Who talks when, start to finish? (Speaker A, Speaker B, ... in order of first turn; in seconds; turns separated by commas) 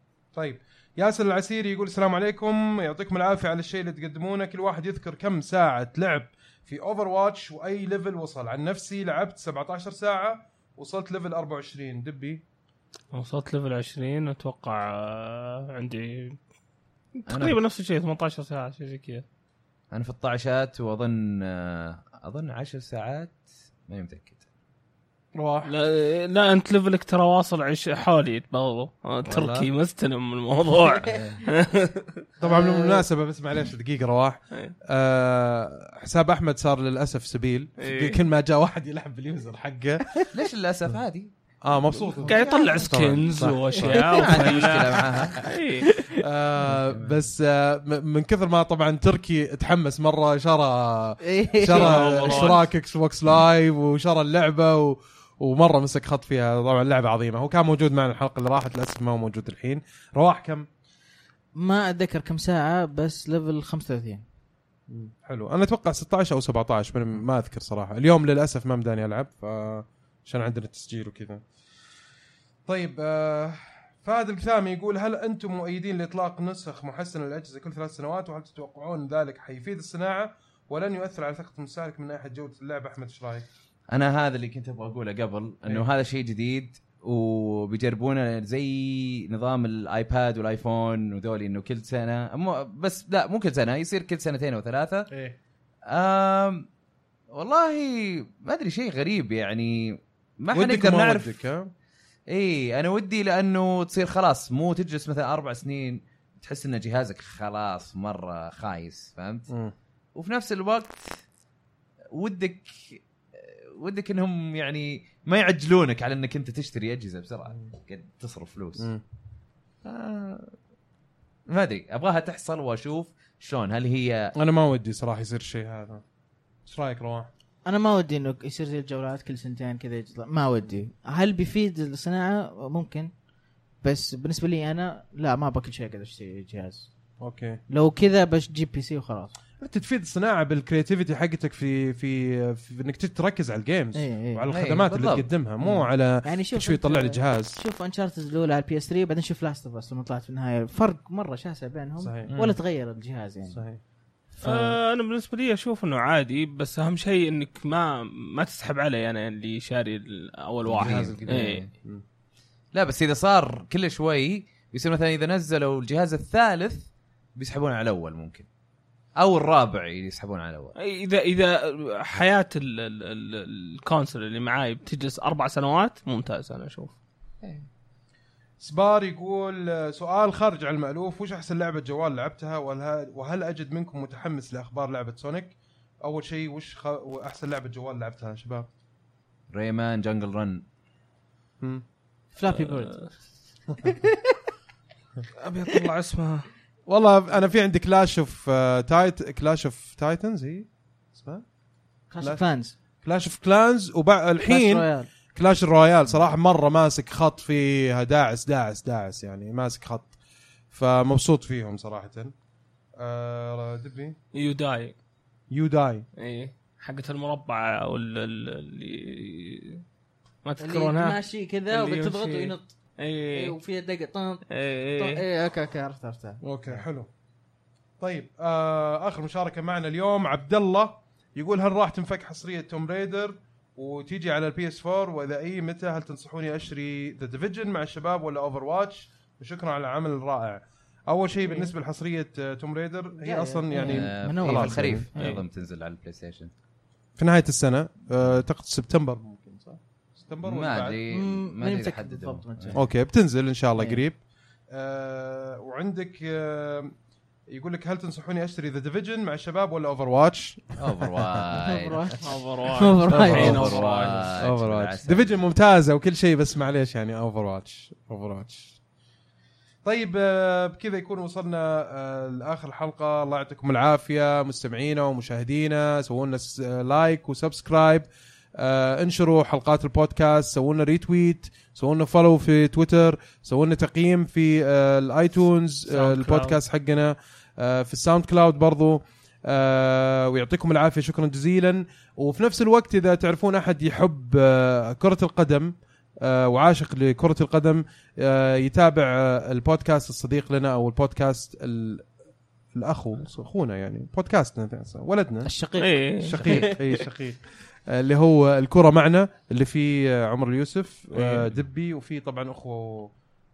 Speaker A: 0.3-12.4, Speaker B: 13.1-16.4, Speaker B: 17.2-19.2, Speaker C: 17.3-17.6, Speaker C: 19.9-24.4, Speaker A: 25.4-25.7, Speaker B: 25.6-32.2, Speaker C: 29.3-29.7, Speaker C: 31.1-31.4, Speaker A: 32.4-40.1, Speaker D: 32.4-33.0, Speaker B: 37.8-38.2, Speaker C: 40.3-41.3, Speaker A: 41.6-44.8, Speaker C: 41.9-43.0, Speaker B: 42.2-46.0, Speaker C: 43.7-45.5, Speaker A: 46.1-60.7, Speaker C: 46.6-47.2, Speaker D: 51.2-52.3, Speaker B: 51.7-52.7, Speaker D: 61.6-64.2, Speaker A: 64.9-71.4, Speaker A: 72.7-83.5, Speaker C: 83.9-95.1, Speaker A: 95.1-95.4, Speaker C: 95.9-96.7, Speaker C: 97.3-101.3, Speaker A: 100.5-101.7, Speaker C: 102.3-109.5, Speaker A: 109.5-109.7, Speaker C: 110.2-111.1, Speaker C: 112.1-118.9, Speaker C: 119.8-120.5, Speaker C: 121.5-124.3, Speaker A: 124.4-126.0, Speaker A: 126.7-127.3, Speaker D: 127.7-133.1, Speaker D: 133.8-136.9, Speaker A: 137.2-137.6, Speaker D: 137.7-139.3, Speaker A: 139.6-147.6, Speaker D: 143.9-144.4, Speaker C: 144.5-145.3, Speaker D: 145.6-153.6, Speaker A: 152.0-152.3, Speaker C: 152.3-152.6, Speaker A: 153.5-153.8, Speaker B: 154.4-161.7, Speaker D: 154.4-154.8, Speaker C: 160.7-161.7, Speaker A: 160.8-161.3, Speaker C: 162.7-168.5, Speaker C: 169.2-170.8, Speaker B: 170.8-176.9, Speaker C: 177.4-177.7, Speaker A: 178.6-188.7, Speaker C: 189.5-190.6, Speaker D: 192.3-193.0, Speaker B: 192.5-193.1, Speaker D: 193.8-194.4, Speaker B: 195.4-196.5, Speaker A: 196.9-201.4, Speaker D: 202.1-202.8, Speaker A: 203.0-210.2, Speaker D: 204.4-205.1, Speaker A: 210.7-212.3, Speaker A: 213.0-214.2, Speaker B: 214.3-214.9, Speaker A: 215.5-216.1, Speaker B: 216.2-219.8, Speaker B: 220.4-221.2, Speaker D: 220.6-222.8, Speaker B: 221.7-223.6, Speaker D: 223.3-224.4, Speaker B: 224.5-225.2, Speaker D: 225.0-226.8, Speaker A: 226.4-227.1, Speaker A: 228.0-245.1, Speaker D: 241.4-241.7, Speaker D: 243.2-244.9, Speaker C: 243.8-246.5, Speaker A: 247.2-251.0, Speaker C: 250.4-252.8, Speaker D: 251.1-252.8, Speaker A: 252.8-256.9, Speaker D: 253.8-254.0, Speaker A: 257.5-261.1, Speaker C: 260.8-262.1, Speaker D: 261.6-263.8, Speaker B: 262.2-264.4, Speaker A: 263.1-263.6, Speaker C: 263.2-265.4, Speaker A: 264.4-268.8, Speaker A: 269.9-302.1, Speaker B: 285.9-286.6, Speaker A: 302.7-305.5, Speaker D: 305.4-306.8, Speaker B: 305.8-306.8, Speaker A: 306.2-313.1, Speaker B: 311.1-311.6